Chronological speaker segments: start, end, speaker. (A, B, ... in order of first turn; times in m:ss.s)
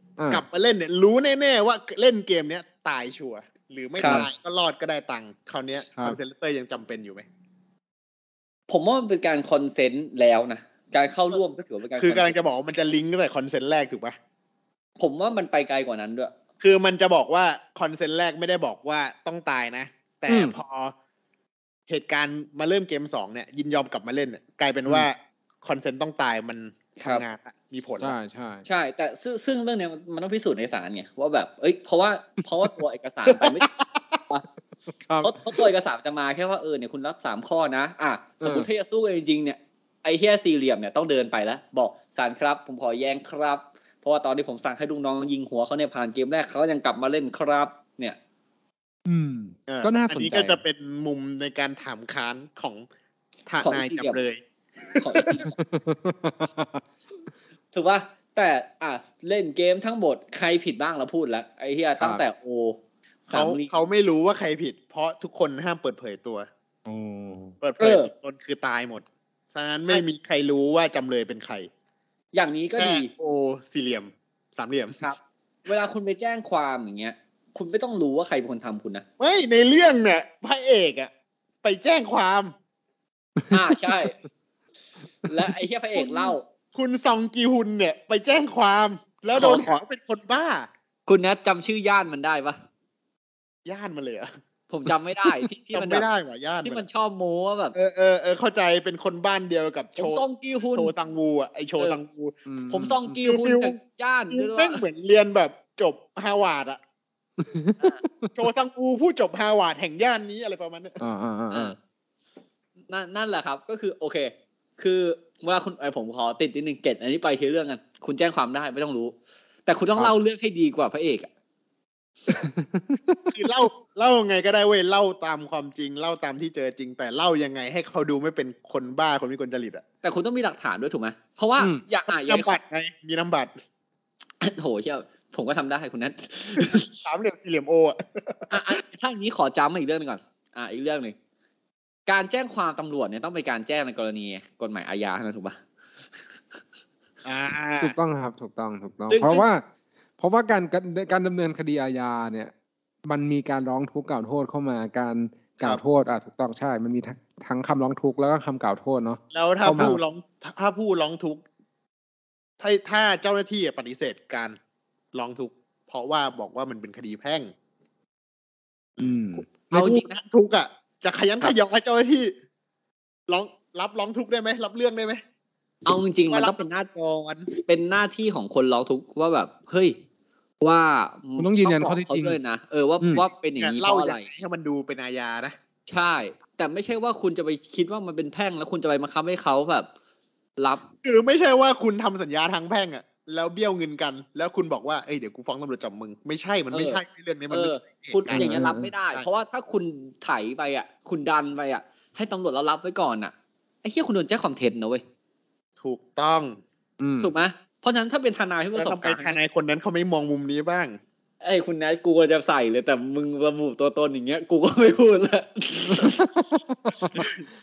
0:00.2-0:00.4 A
0:00.3-0:07.3 B
0:04.0-0:04.3 C
0:08.7-0:12.4 C
0:12.0-0:14.2 B
0:15.0-0:16.3 C
0:16.6-0:20.9 B
0:20.3-0:20.6 A
0:21.9-0:28.2 B
0:27.0-0:27.2 C
0:28.0-0:28.6 A
0:28.7-0:33.7 C
0:35.0-0:35.3 A
0:35.2-0:48.2 C
0:38.4-0:38.7 A
0:49.1-0:50.6 A
0:49.7-0:52.9 B
0:53.5-0:55.4 B
0:53.6-0:54.2 C
0:55.0-0:55.6 C
0:55.6-0:56.8 A
0:57.7-1:03.7 C
1:03.3-1:06.5 B
1:06.9-1:07.6 A
1:07.6-1:11.7 B
1:07.8-1:08.1 C
1:12.3-1:13.1 C
1:12.8-1:15.0 B
1:15.0-1:19.0 C
1:19.2-1:21.1 B
1:21.6-1:22.5 B
1:23.4-1:23.7 A
1:23.5-1:24.2 C
1:25.3-1:26.4 C
1:26.0-1:30.7 B
1:29.3-1:29.7 C
1:31.1-1:32.6 C
1:33.7-1:34.3 B
1:34.7-1:36.1 C
1:35.7-1:36.8 B
1:36.6-1:37.8 C
1:37.8-1:42.4 B
1:40.0-1:40.9 C
1:42.5-1:43.1 A
1:42.7-1:44.8 C
1:43.2-1:43.8 B
1:44.3-1:46.8 B
1:47.4-1:48.3 A
1:48.4-1:51.0 B
1:51.0-1:51.8 A
1:52.9-1:59.1 C
1:59.7-2:01.3 C
2:02.3-2:03.3 A
2:03.3-2:09.8 B
2:10.0-2:12.5 C
2:12.1-2:13.5 B
2:14.4-2:16.9 C
2:17.0-2:18.8 B
2:18.5-2:21.2 C
2:22.1-2:25.6 C
2:27.2-2:28.0 B
2:27.8-2:29.6 A
2:29.1-2:29.4 C
2:30.2-2:32.5 A
2:33.1-2:40.0 A
2:39.3-2:41.4 B
2:42.6-2:44.6 B
2:45.1-2:47.5 B
2:49.0-2:49.5 A
2:49.7-2:50.1 C
2:49.7-2:52.3 B
2:53.3-2:55.2 B
2:55.8-2:56.9 C
2:56.3-2:57.5 B
2:57.5-3:00.0 C
3:00.6-3:04.3 C
3:01.4-3:02.4 A
3:03.6-3:05.6 B
3:05.9-3:09.9 C
3:10.6-3:10.8 C
3:11.0-3:19.3 B
3:16.7-3:23.3 C
3:18.3-3:18.9 A
3:23.8-3:25.0 C
3:25.8-3:26.6 B
3:27.0-3:27.3 A
3:27.2-3:29.4 C
3:28.8-3:31.0 B
3:31.4-3:36.3 C
3:36.9-3:37.2 A